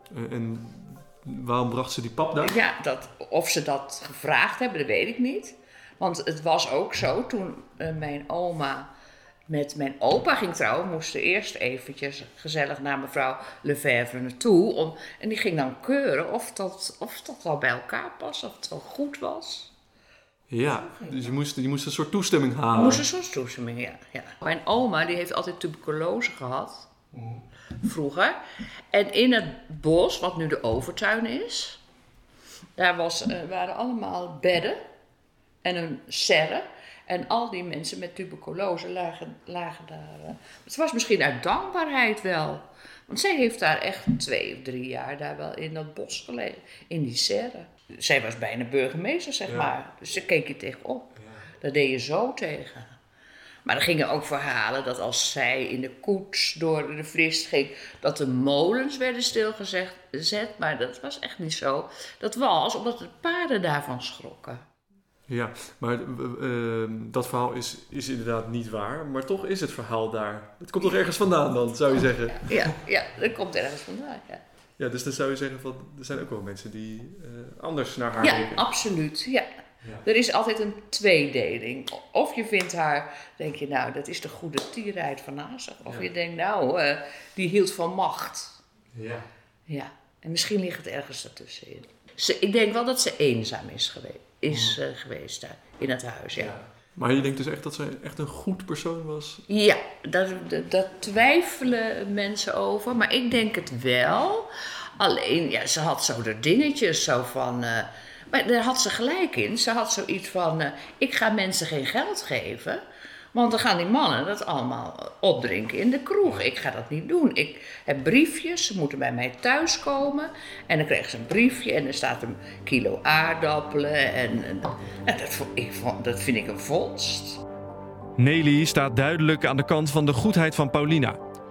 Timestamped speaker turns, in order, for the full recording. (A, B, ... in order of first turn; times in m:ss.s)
0:00.1-0:02.5 A
0:02.4-0:08.9 B
0:09.5-0:19.7 B
0:20.5-0:23.0 A
0:22.7-0:26.9 B
0:27.1-0:27.4 A
0:27.8-0:28.4 B
0:28.9-0:31.8 B
0:32.8-0:34.8 B
0:35.6-0:53.0 B
0:53.6-1:04.6 B
1:05.3-1:12.7 A
1:12.5-1:14.4 B
1:14.8-1:18.6 A
1:18.2-1:19.5 B
1:20.0-1:28.6 B
1:28.9-1:29.2 A
1:29.7-1:36.5 B
1:34.5-1:34.8 A
1:36.4-1:39.4 A
1:39.5-1:52.8 B
1:53.3-2:07.4 B
2:08.2-2:11.2 C